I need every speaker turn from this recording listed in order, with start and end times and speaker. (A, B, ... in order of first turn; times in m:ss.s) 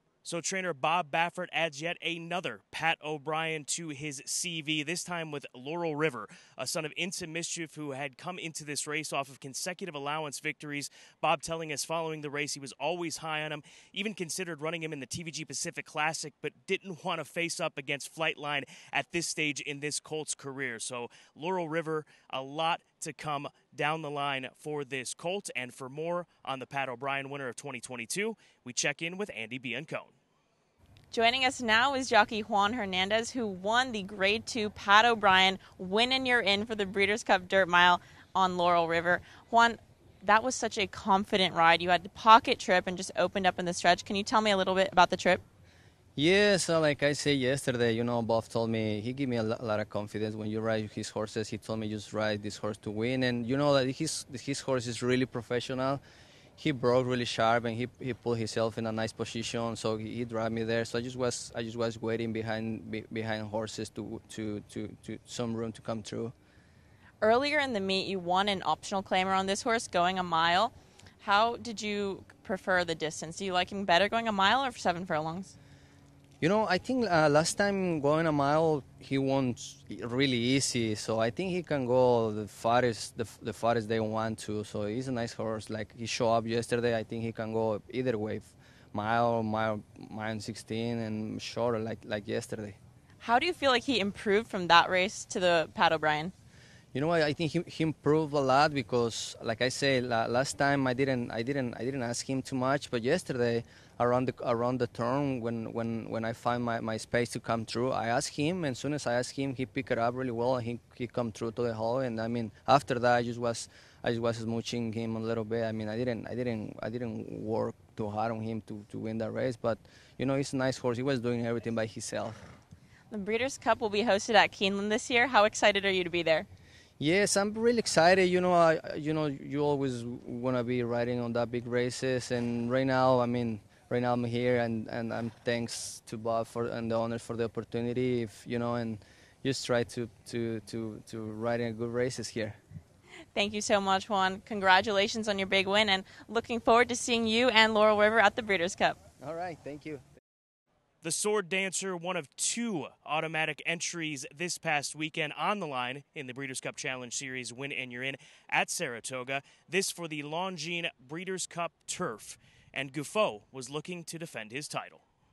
0:00.2-0:30.1 A
0:31.1-0:45.4 B
0:46.2-0:56.0 C
0:56.6-1:06.3 C
1:07.2-1:15.6 B
1:16.4-1:32.8 C
1:33.2-1:36.3 B
1:36.9-2:02.4 C
2:03.1-2:06.5 B
2:07.0-2:22.6 C
2:23.3-2:29.0 B
2:29.2-2:30.0 C
2:31.0-2:45.0 A